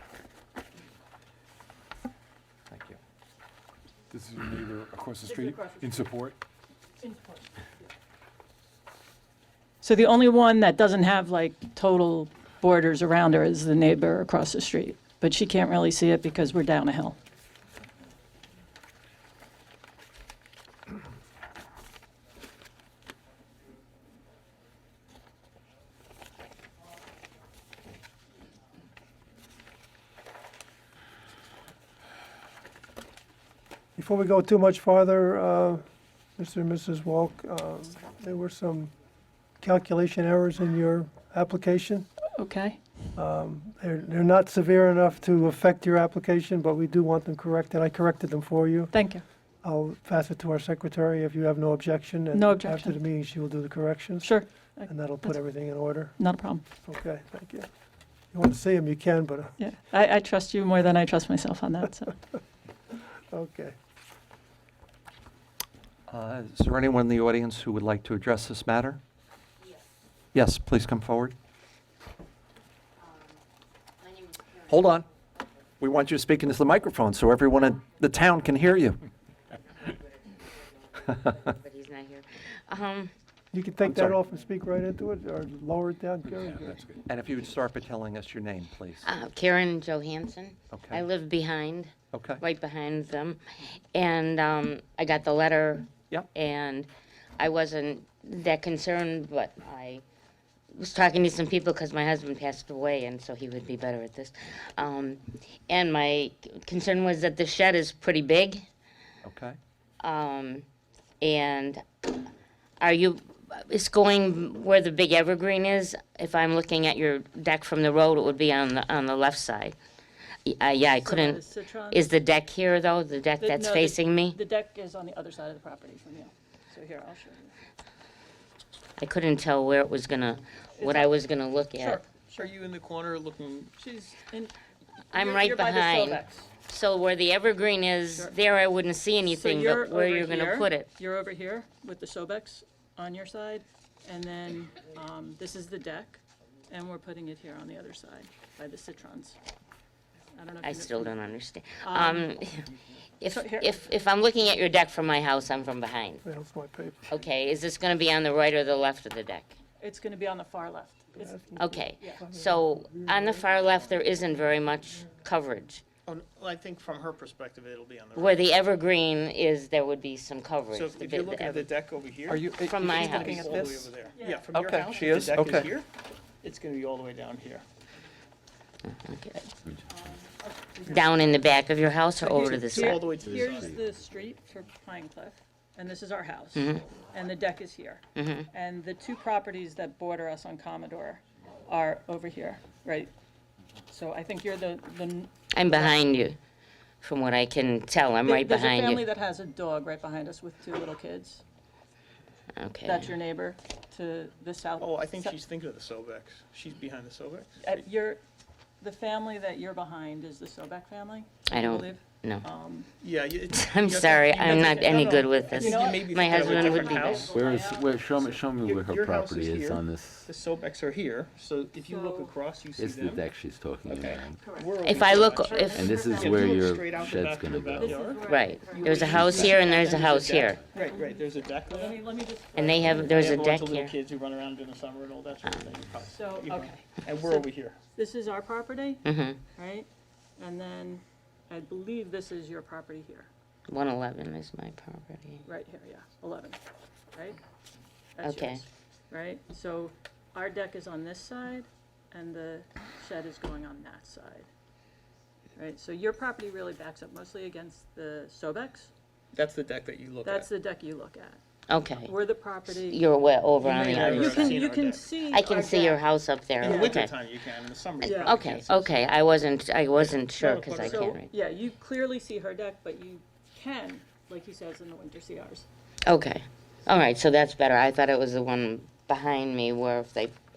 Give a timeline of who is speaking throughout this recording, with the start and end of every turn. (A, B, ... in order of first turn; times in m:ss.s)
0:02.7-0:03.0 A
0:04.1-0:06.2 B
0:05.2-0:06.1 C
0:07.0-0:07.4 C
0:09.8-0:17.2 C
0:34.0-0:35.8 D
0:36.4-0:38.9 D
0:39.6-0:42.1 D
0:42.3-0:42.8 C
0:43.2-0:49.0 D
0:48.9-0:49.2 C
0:49.6-0:56.1 D
0:52.3-0:53.0 C
0:54.2-0:55.4 C
0:56.2-0:56.6 C
0:56.8-0:57.7 D
0:58.3-0:59.5 D
0:59.6-1:02.2 C
1:03.3-1:03.7 D
1:06.1-1:09.0 A
1:10.3-1:11.3 A
1:14.7-1:15.0 A
1:15.8-1:19.0 A
1:21.1-1:23.1 E
1:23.5-1:26.8 D
1:23.8-1:24.2 A
1:27.0-1:29.0 A
1:29.0-1:40.0 E
1:30.7-1:31.0 A
1:32.1-1:32.4 A
1:40.7-1:48.6 E
1:49.2-1:49.6 A
1:50.0-1:50.6 E
1:51.2-1:52.1 E
1:52.8-1:59.8 E
2:00.4-2:04.4 E
2:01.0-2:02.0 C
2:03.4-2:07.5 C
2:09.0-2:12.0 E
2:10.8-2:11.1 C
2:11.8-2:12.5 C
2:12.4-2:13.7 F
2:13.8-2:14.6 C
2:15.1-2:16.5 C
2:15.1-2:20.9 E
2:18.1-2:18.4 C
2:19.2-2:29.4 C
2:30.3-2:31.2 C
2:30.6-2:36.2 E
2:31.8-2:32.3 C
2:33.3-2:33.7 C
2:36.2-2:37.1 D
2:37.1-2:39.6 E
2:39.8-2:42.2 C
2:41.2-2:43.5 D
2:41.6-2:45.8 E
2:46.0-2:48.5 F
2:48.1-2:51.7 E
2:50.7-2:55.9 F
2:52.3-2:53.9 A
2:52.6-2:53.4 E
2:53.1-2:55.3 C
2:54.5-2:55.7 A
2:56.4-2:57.6 F
2:58.9-2:59.5 E
2:59.9-3:01.4 C
3:00.9-3:03.1 E
3:02.2-3:13.1 C
3:02.4-3:03.7 F
3:03.3-3:03.6 G
3:06.5-3:06.8 E
3:08.1-3:08.5 E
3:13.9-3:16.0 C
3:15.5-3:16.4 E
3:17.0-3:19.0 E
3:18.2-3:21.4 C
3:22.6-3:23.1 E
3:22.8-3:25.4 C
3:24.8-3:27.8 F
3:27.6-3:28.2 C
3:28.8-3:32.9 C
3:31.5-3:32.4 E
3:33.0-3:37.3 F
3:33.5-3:37.3 E
3:34.4-3:38.3 C
3:37.3-3:40.3 G
3:38.6-3:43.2 F
3:41.8-3:42.4 C
3:42.7-3:48.1 G
3:44.0-3:46.5 C
3:44.5-3:52.0 F
3:44.8-3:45.9 E
3:47.8-3:50.0 C
3:48.2-3:50.7 E
3:49.1-3:50.0 G
3:50.7-3:53.2 C
3:52.5-3:54.0 E
3:53.0-3:57.8 F
3:55.4-3:55.8 E
3:56.0-4:03.3 C
3:59.0-3:59.4 E
4:03.7-4:05.4 E
4:05.4-4:06.6 C
4:08.2-4:14.5 C
4:08.2-4:08.6 E
4:15.6-4:18.9 C
4:19.3-4:20.5 F
4:20.2-4:21.4 C
4:21.7-4:22.1 E
4:22.0-4:23.0 C
4:22.7-4:24.6 E
4:23.6-4:25.1 F
4:23.6-4:26.0 C
4:25.3-4:27.2 E
4:26.6-4:29.0 F
4:26.6-4:27.0 C
4:28.0-4:28.4 C
4:28.2-4:31.3 E
4:30.0-4:31.0 F
4:30.4-4:35.7 C
4:36.1-4:40.3 E